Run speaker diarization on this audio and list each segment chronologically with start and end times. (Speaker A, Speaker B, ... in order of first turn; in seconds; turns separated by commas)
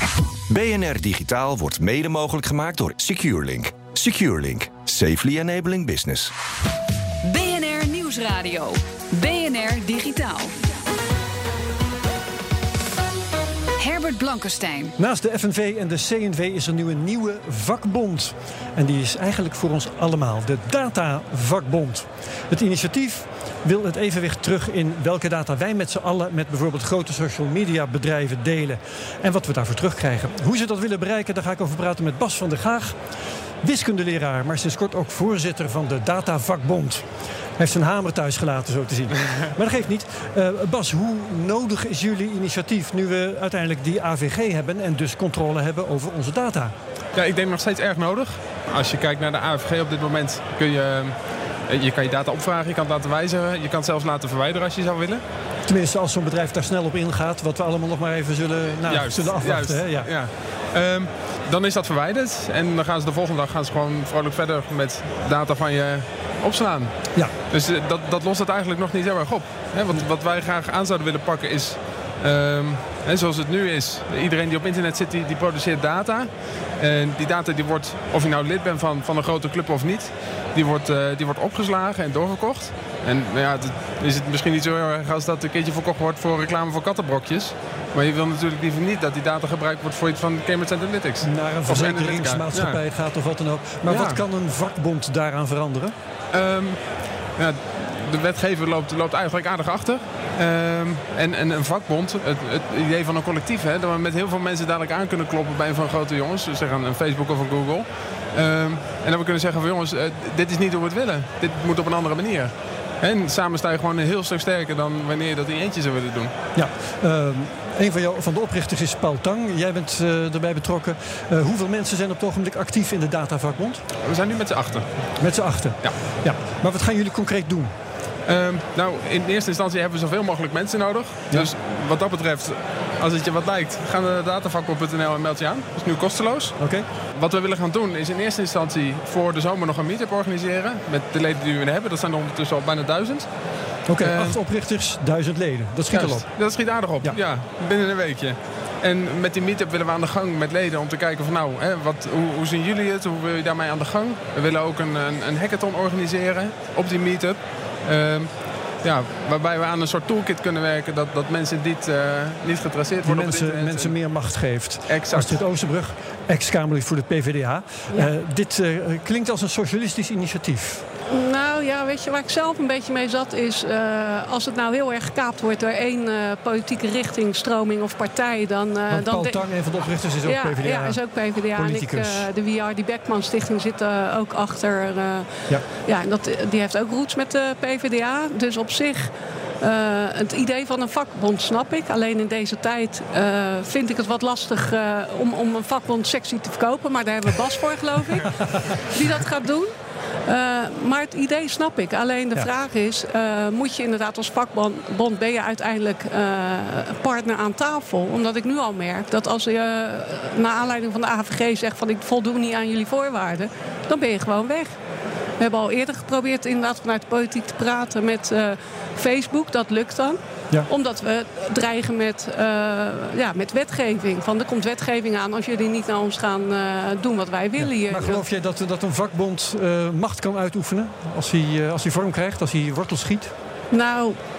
Speaker A: 0.5-6.3, Speaker B: 7.2-10.6, Speaker B: 13.8-14.9, Speaker C: 15.0-33.0, Speaker C: 33.6-37.0, Speaker C: 37.6-46.7, Speaker D: 47.1-51.1, Speaker D: 51.7-55.2, Speaker C: 55.6-60.1, Speaker D: 58.9-92.8, Speaker C: 91.2-95.9, Speaker D: 93.8-94.2, Speaker D: 96.3-96.8, Speaker D: 97.4-116.3, Speaker C: 116.5-123.8, Speaker D: 124.0-125.2, Speaker C: 125.2-127.7, Speaker D: 128.3-136.6, Speaker C: 136.6-136.9, Speaker D: 137.1-143.3, Speaker C: 143.9-146.3, Speaker D: 144.0-144.4, Speaker D: 145.9-163.9, Speaker C: 163.0-170.8, Speaker D: 164.9-165.4, Speaker E: 171.1-179.5, Speaker C: 178.9-182.3, Speaker E: 180.2-199.7, Speaker E: 200.2-214.7, Speaker E: 215.4-228.2, Speaker C: 227.6-233.3, Speaker E: 233.7-234.2